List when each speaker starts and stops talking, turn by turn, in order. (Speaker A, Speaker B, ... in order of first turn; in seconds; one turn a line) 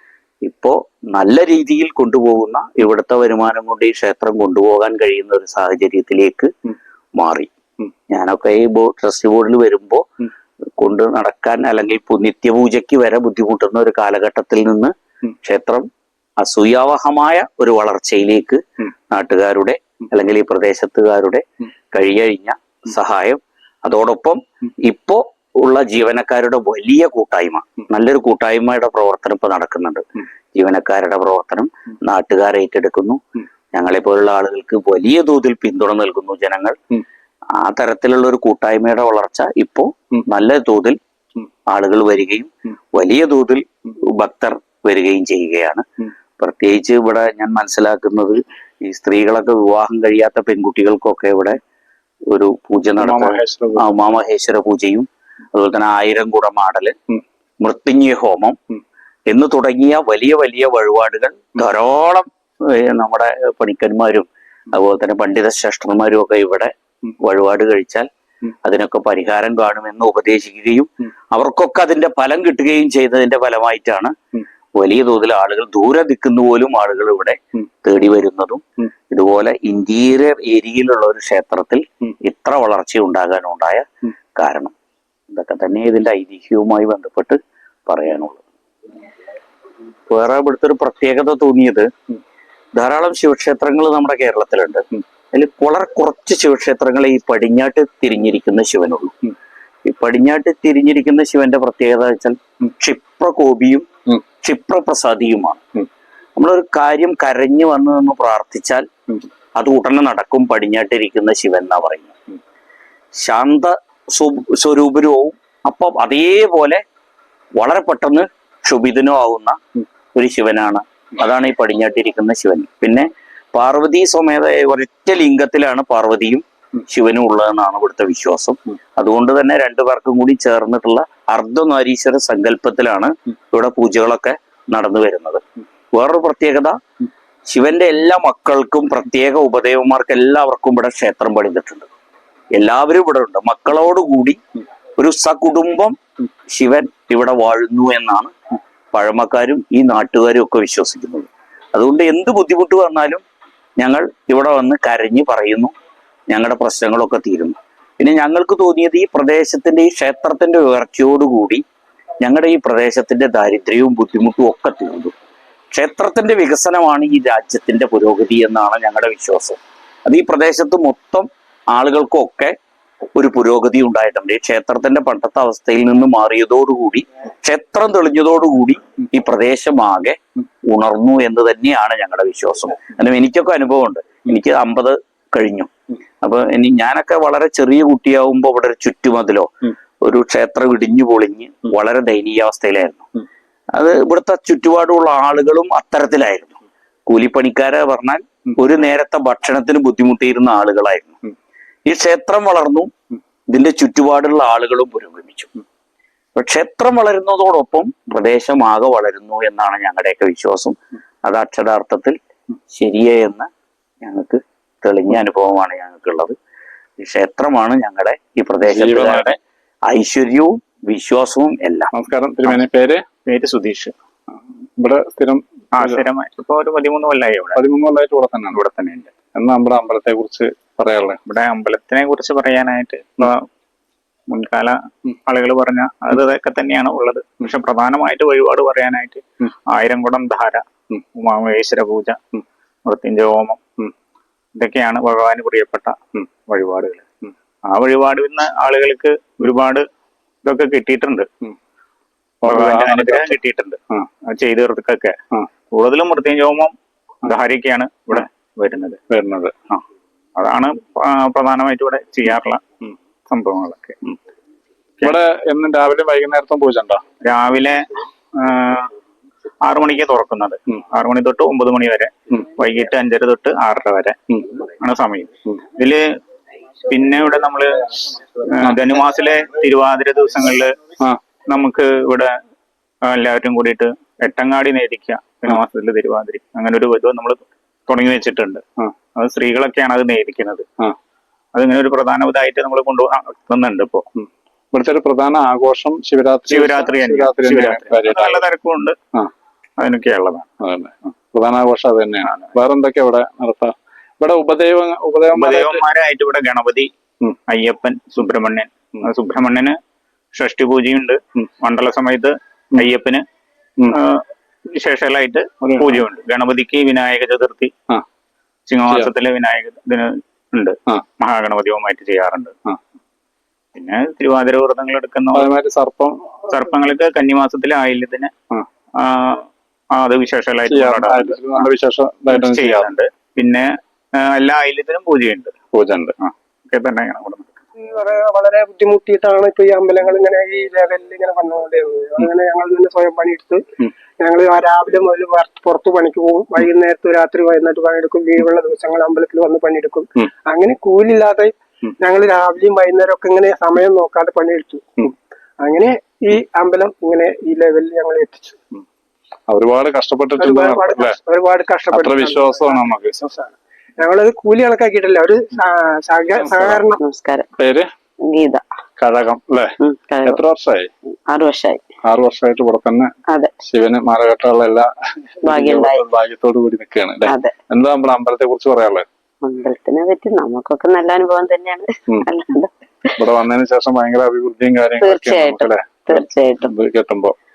Speaker A: 0.4-6.5
Speaker A: 7.2-7.5
Speaker A: 8.1-10.1
Speaker A: 10.8-14.9
Speaker A: 15.4-15.9
Speaker A: 16.4-33.2
Speaker A: 33.7-36.8
Speaker A: 37.6-41.0
Speaker A: 41.7-45.8
Speaker A: 46.4-51.6
Speaker A: 52.3-56.9
Speaker B: 53.0-53.9
Speaker A: 57.6-58.6
Speaker A: 59.3-66.7
Speaker A: 67.2-68.1
Speaker A: 68.6-74.1
Speaker A: 74.8-84.7
Speaker A: 85.3-88.4
Speaker A: 90.1-91.9
Speaker A: 92.7-99.1
Speaker A: 99.8-103.9
Speaker A: 104.4-105.6
Speaker A: 106.3-108.9
Speaker A: 109.6-112.1
Speaker A: 113.2-116.8
Speaker A: 117.6-119.6
Speaker A: 120.1-135.4
Speaker A: 135.9-136.8
Speaker A: 137.5-141.9
Speaker A: 142.5-144.4
Speaker A: 145.0-146.0
Speaker A: 146.5-148.3
Speaker A: 148.9-153.2
Speaker A: 153.8-155.7
Speaker A: 156.3-161.6
Speaker A: 162.2-165.1
Speaker A: 165.7-172.5
Speaker A: 173.2-185.7
Speaker A: 186.2-189.5
Speaker A: 190.0-193.1
Speaker A: 193.7-196.6
Speaker A: 197.1-201.2
Speaker A: 201.8-202.9
Speaker A: 203.5-205.5
Speaker A: 206.3-212.2
Speaker A: 212.7-213.5
Speaker A: 214.0-216.3
Speaker A: 217.0-219.4
Speaker B: 218.6-219.3
Speaker A: 219.9-221.9
Speaker B: 221.9-223.0
Speaker C: 223.2-223.9
Speaker B: 224.8-226.1
Speaker C: 225.7-227.6
Speaker B: 227.5-228.6
Speaker C: 228.6-229.1
Speaker B: 229.3-231.2
Speaker C: 231.2-233.5
Speaker C: 234.3-242.2
Speaker C: 242.8-243.6
Speaker C: 244.6-247.1
Speaker C: 247.6-249.9
Speaker C: 250.4-251.3
Speaker B: 252.4-253.4
Speaker C: 252.4-255.2
Speaker C: 255.7-256.8
Speaker C: 257.3-259.0
Speaker B: 259.1-259.5
Speaker C: 260.4-262.6
Speaker C: 263.3-264.0
Speaker B: 265.0-267.0
Speaker C: 267.2-268.9
Speaker C: 269.6-276.1
Speaker C: 276.9-280.8
Speaker C: 281.4-282.3
Speaker C: 283.0-290.7
Speaker C: 291.5-294.1
Speaker B: 294.2-298.4
Speaker C: 296.5-299.0
Speaker C: 299.8-300.5
Speaker B: 300.6-305.8
Speaker C: 302.3-302.5
Speaker C: 305.3-306.9
Speaker C: 307.5-309.8
Speaker C: 310.3-313.2
Speaker C: 313.9-317.7
Speaker B: 315.6-316.0
Speaker C: 318.7-322.5
Speaker B: 318.9-319.1
Speaker C: 323.7-325.4
Speaker B: 325.3-326.4
Speaker C: 326.5-328.3
Speaker C: 328.9-331.4
Speaker B: 330.6-332.9
Speaker C: 332.3-335.5
Speaker B: 335.7-336.1
Speaker C: 336.2-337.5
Speaker D: 337.8-343.6
Speaker D: 344.2-354.8
Speaker D: 355.6-358.5
Speaker B: 359.5-361.2
Speaker D: 360.4-362.7
Speaker B: 361.9-363.2
Speaker D: 363.3-366.9
Speaker B: 366.4-366.9
Speaker E: 367.0-367.4
Speaker B: 367.6-367.9
Speaker E: 368.3-368.6
Speaker B: 369.0-370.9
Speaker E: 369.8-370.4
Speaker E: 371.3-371.8
Speaker B: 372.0-374.9
Speaker B: 375.4-379.1
Speaker E: 375.4-376.0
Speaker E: 377.2-377.5
Speaker E: 379.4-382.7
Speaker B: 383.2-387.3
Speaker E: 385.0-386.7